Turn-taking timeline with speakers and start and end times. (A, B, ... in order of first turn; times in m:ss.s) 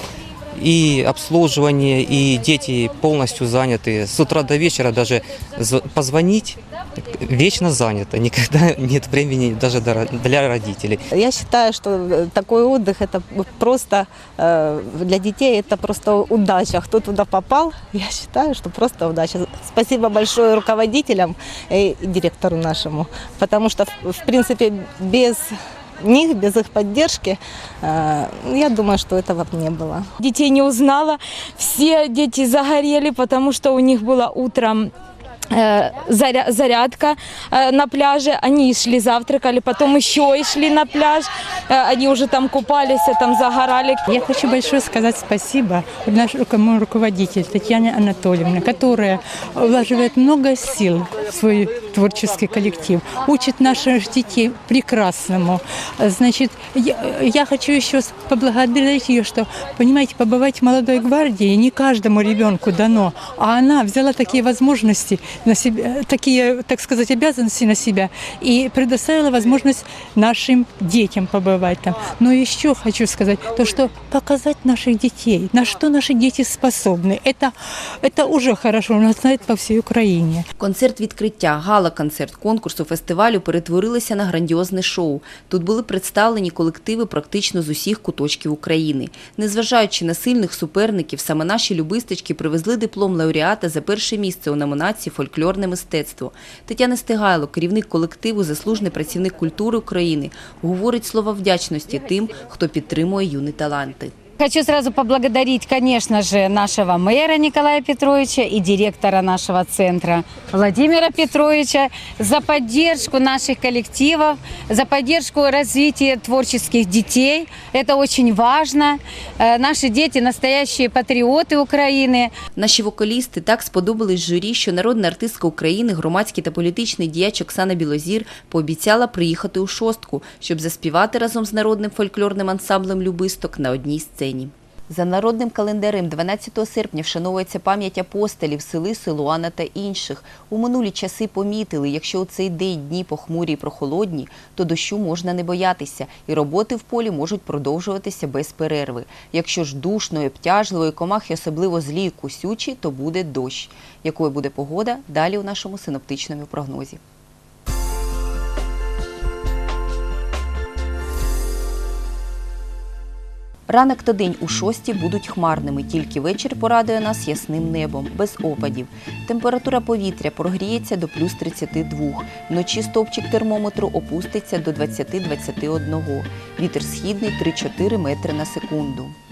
0:00.6-0:06.6 A
0:07.2-0:11.0 A
0:11.1-0:30.1 B
0:30.2-0:34.9 C
0:35.6-0:44.0 C
0:44.1-1:20.5 D
1:20.6-1:44.1 E
1:44.4-2:02.3 F
2:02.6-2:37.0 E
2:43.7-2:59.2 E